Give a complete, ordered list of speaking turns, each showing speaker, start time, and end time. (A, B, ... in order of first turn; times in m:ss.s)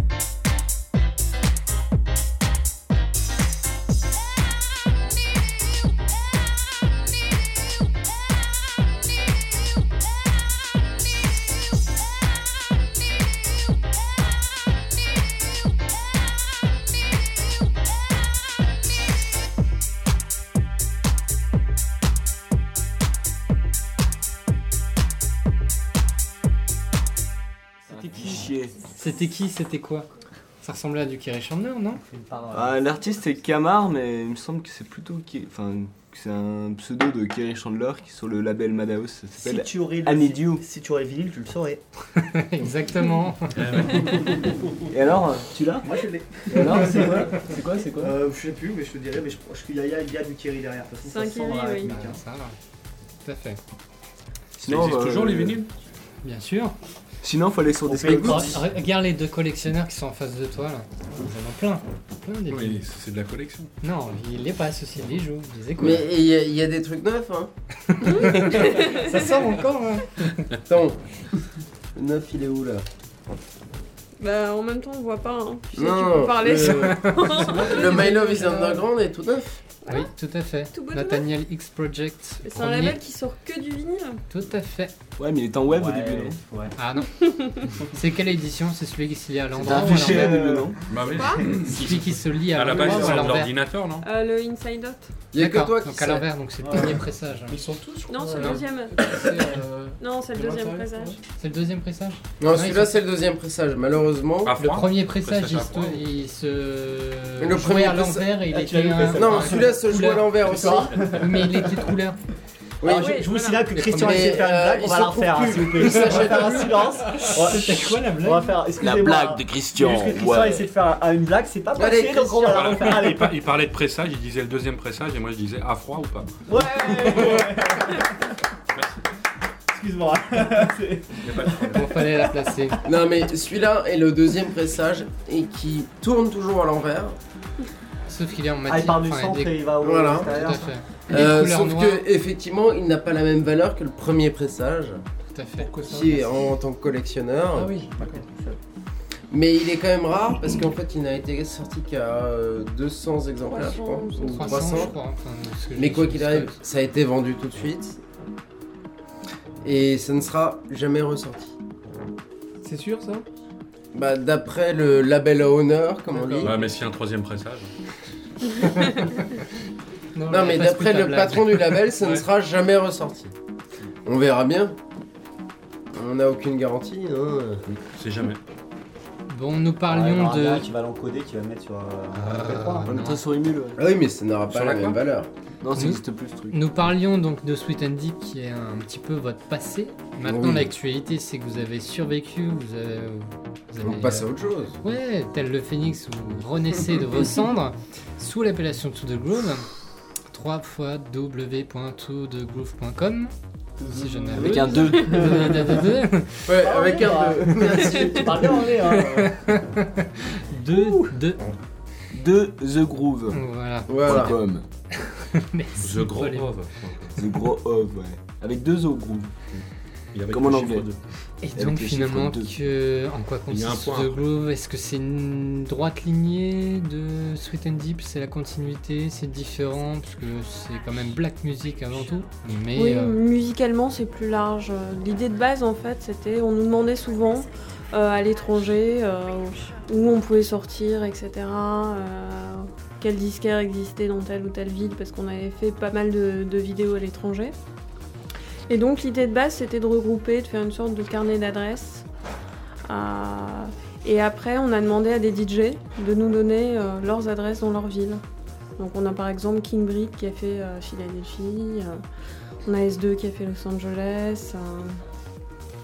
0:27.9-0:28.8 A
0:28.0-0:30.1 B
0:30.6-0:32.0 B
0:32.0-0:32.8 C
0:32.5-0:40.6 A
0:39.3-0:41.8 C
0:42.2-0:44.2 B
0:43.5-0:44.3 D
0:44.9-0:48.1 A
0:45.8-0:52.2 C
0:51.0-0:51.9 E
0:51.8-0:52.6 B
0:53.2-0:53.6 B
0:54.6-0:55.6 A
0:54.6-0:55.7 D
0:56.2-0:56.7 B
0:57.2-0:58.6 A
0:57.8-0:58.6 C
0:58.2-1:02.8 B
1:02.5-1:03.7 D
1:03.8-1:06.1 B
1:05.8-1:07.5 F
1:07.9-1:10.4 B
1:08.1-1:09.3 E
1:10.6-1:12.8 F
1:14.2-1:18.5 E
1:15.8-1:19.6 F
1:16.6-1:17.2 B
1:17.5-1:18.6 G
1:19.8-1:20.1 E
1:19.9-1:23.0 B
1:20.7-1:21.2 E
1:22.4-1:24.2 E
1:24.3-1:24.9 B
1:25.2-1:26.4 A
1:25.7-1:26.7 C
1:26.8-1:27.1 B
1:27.1-1:27.7 E
1:27.9-1:30.5 B
1:29.6-1:31.1 A
1:29.6-1:31.7 C
1:30.9-1:34.0 D
1:31.1-1:31.5 E
1:31.5-1:33.5 B
1:32.8-1:33.2 C
1:34.0-1:35.1 E
1:35.3-1:36.3 F
1:35.4-1:37.6 B
1:36.6-1:37.0 C
1:37.5-1:41.2 G
1:38.1-1:39.1 E
1:38.3-1:38.6 B
1:40.0-1:41.2 E
1:41.4-1:43.0 B
1:42.4-1:44.6 F
1:44.4-1:46.0 D
1:44.6-1:50.3 B
1:47.4-1:48.3 F
1:48.5-1:49.8 C
1:49.1-1:51.1 F
1:50.4-1:51.9 C
1:51.1-1:52.2 B
1:52.8-1:53.2 F
1:52.8-2:03.4 C
1:52.9-1:53.5 E
1:53.2-1:54.3 B
1:54.0-1:57.0 F
1:57.1-1:58.5 B
1:58.8-2:00.7 A
2:01.7-2:02.9 F
2:02.5-2:07.4 D
2:06.5-2:08.3 C
2:08.7-2:09.0 D
2:09.7-2:11.7 C
2:11.2-2:11.9 D
2:11.7-2:12.8 B
2:12.8-2:17.2 F
2:18.1-2:22.0 B
2:18.7-2:20.7 C
2:19.8-2:20.4 F
2:21.1-2:25.0 F
2:25.3-2:25.7 B
2:25.6-2:26.5 G
2:25.8-2:27.8 F
2:27.5-2:28.2 G
2:27.9-2:28.6 C
2:29.3-2:35.0 F
2:33.5-2:34.9 E
2:34.3-2:36.6 B
2:35.8-2:38.0 F
2:39.6-2:41.6 F
2:42.6-2:43.2 G
2:43.9-2:46.6 F
2:46.1-2:46.5 B
2:46.4-2:47.7 D
2:48.5-2:49.4 B
2:50.1-2:51.8 B
2:50.3-2:53.3 F
2:54.0-2:54.8 F
2:55.9-2:57.6 F
2:57.7-2:58.4 D
2:59.3-3:00.6 B
2:59.9-3:03.0 C
3:02.2-3:03.2 B
3:02.8-3:03.8 A
3:03.8-3:05.3 F
3:05.6-3:06.6 A
3:05.7-3:14.3 B
3:10.2-3:10.7 F
3:13.8-3:14.8 F
3:14.8-3:19.7 B
3:20.3-3:23.3 B
3:23.9-3:25.8 A
3:23.9-3:25.8 C
3:23.9-3:26.5 B
3:26.4-3:28.7 F
3:26.6-3:29.6 C
3:28.9-3:31.4 B
3:30.8-3:31.1 C
3:32.1-3:34.6 A
3:33.3-3:34.3 B
3:33.9-3:34.4 F
3:35.3-3:36.6 B
3:35.8-3:37.1 D
3:37.2-3:39.3 A
3:39.5-3:41.0 D
3:40.3-3:40.9 A
3:41.4-3:53.2 B
3:41.5-3:42.6 A
3:43.5-3:44.2 D
3:52.7-4:07.5 E
4:08.7-4:12.0 E
4:12.8-4:18.2 E
4:18.8-4:22.0 E
4:22.6-4:25.0 E